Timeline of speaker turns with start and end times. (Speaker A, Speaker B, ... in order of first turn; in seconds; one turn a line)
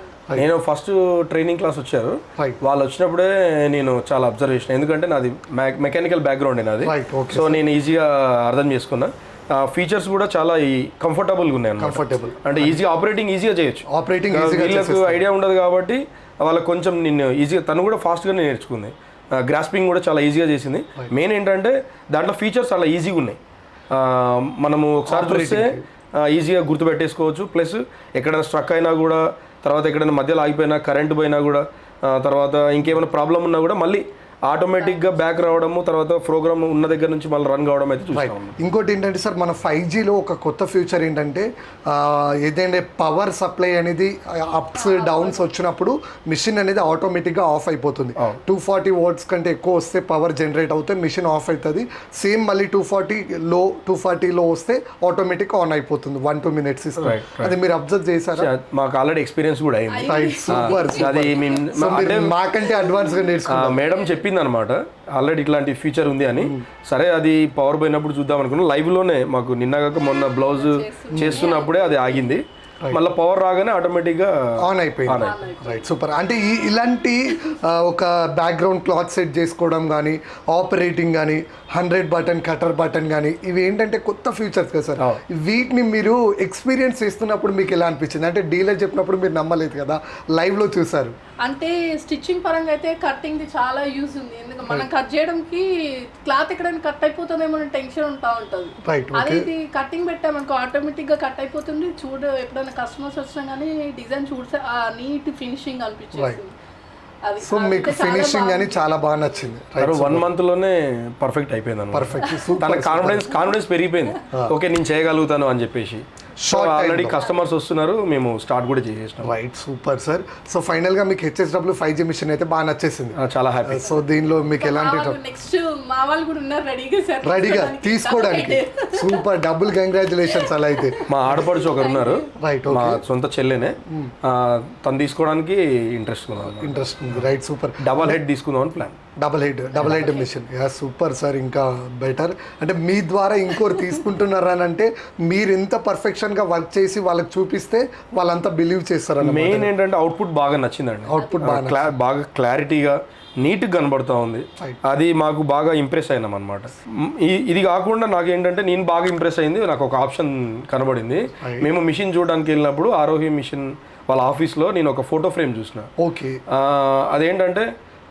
Speaker A: 0.3-23.4
Speaker B: 6.8-7.6
Speaker B: 11.8-12.8
Speaker B: 13.9-15.2
Speaker A: 23.9-38.5
Speaker B: 25.1-25.8
Speaker C: 34.7-35.5
Speaker B: 38.1-58.5
Speaker C: 44.7-45.5
Speaker A: 57.0-57.6
Speaker A: 58.4-62.4
Speaker C: 59.9-61.7
Speaker B: 60.0-63.9
Speaker C: 62.8-63.2
Speaker A: 63.5-75.3
Speaker C: 63.9-64.2
Speaker B: 66.4-66.7
Speaker C: 70.0-72.3
Speaker B: 71.1-71.4
Speaker B: 74.6-91.1
Speaker C: 75.2-75.9
Speaker C: 91.4-95.7
Speaker C: 96.2-106.5
Speaker B: 98.8-99.5
Speaker C: 107.2-109.0
Speaker B: 107.4-110.3
Speaker A: 109.8-119.3
Speaker B: 111.9-113.4
Speaker B: 116.4-117.2
Speaker C: 117.2-117.4
Speaker B: 119.2-123.1
Speaker A: 123.2-124.0
Speaker B: 123.7-125.2
Speaker C: 124.5-129.2
Speaker B: 127.2-131.5
Speaker C: 130.3-132.3
Speaker A: 131.1-137.2
Speaker B: 132.4-133.0
Speaker B: 133.9-134.1
Speaker B: 136.4-138.2
Speaker A: 137.8-139.0
Speaker B: 139.2-149.7
Speaker C: 139.7-140.3
Speaker A: 149.2-165.9
Speaker B: 151.1-151.9
Speaker C: 151.2-151.5
Speaker B: 161.4-161.7
Speaker B: 166.0-166.4
Speaker A: 166.5-167.7